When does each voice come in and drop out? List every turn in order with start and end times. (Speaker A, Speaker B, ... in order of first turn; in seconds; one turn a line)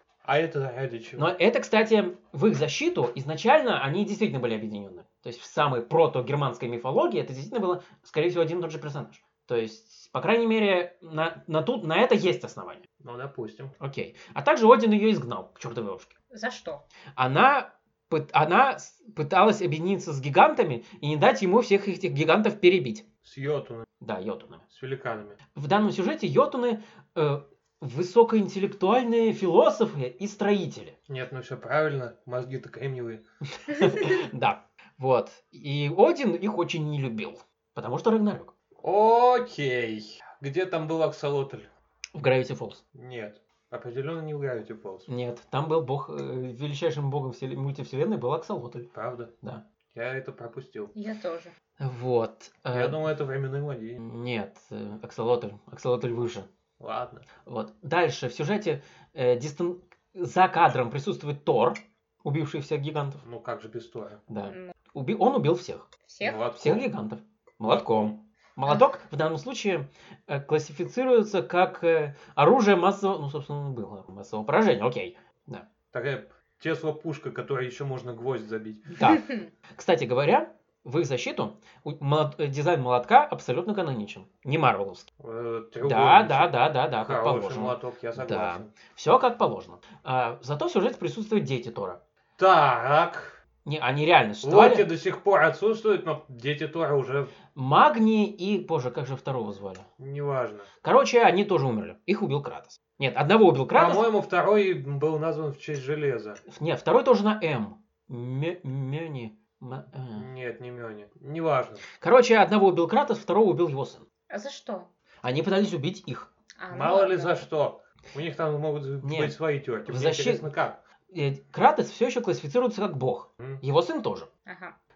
Speaker A: 0.2-1.3
Speaker B: 1.1-12.8
Speaker A: 13.0-13.7
Speaker B: 13.8-16.1
Speaker C: 16.3-16.8
Speaker B: 17.1-23.0
Speaker A: 23.2-23.9
Speaker B: 24.0-24.6
Speaker A: 24.7-25.4
Speaker B: 25.5-30.9
Speaker A: 31.1-33.2
Speaker B: 33.5-38.5
Speaker A: 38.8-41.7
Speaker B: 42.1-42.8
Speaker A: 42.9-45.1
Speaker B: 45.1-48.9
Speaker A: 48.9-49.3
Speaker A: 49.9-50.9
Speaker C: 50.9-51.5
Speaker B: 51.8-53.0
Speaker A: 52.7-54.0
Speaker B: 54.0-56.5
Speaker A: 56.8-57.2
Speaker B: 57.4-63.2
Speaker A: 63.2-64.2
Speaker B: 64.3-65.9
Speaker C: 64.5-64.7
Speaker C: 66.1-66.4
Speaker A: 66.2-66.9
Speaker B: 66.5-75.7
Speaker A: 67.7-68.2
Speaker A: 75.9-78.9
Speaker B: 78.9-85.1
Speaker A: 85.2-88.7
Speaker B: 85.8-92.0
Speaker A: 92.4-93.4
Speaker B: 93.6-94.9
Speaker A: 94.4-97.3
Speaker B: 97.5-99.9
Speaker A: 100.0-100.7
Speaker B: 100.8-104.1
Speaker A: 103.7-106.4
Speaker B: 106.5-110.3
Speaker A: 110.2-111.8
Speaker B: 112.0-114.0
Speaker C: 114.3-114.9
Speaker B: 115.2-116.3
Speaker C: 116.6-117.4
Speaker A: 116.7-120.8
Speaker B: 119.0-120.5
Speaker B: 121.1-124.3
Speaker C: 124.5-124.7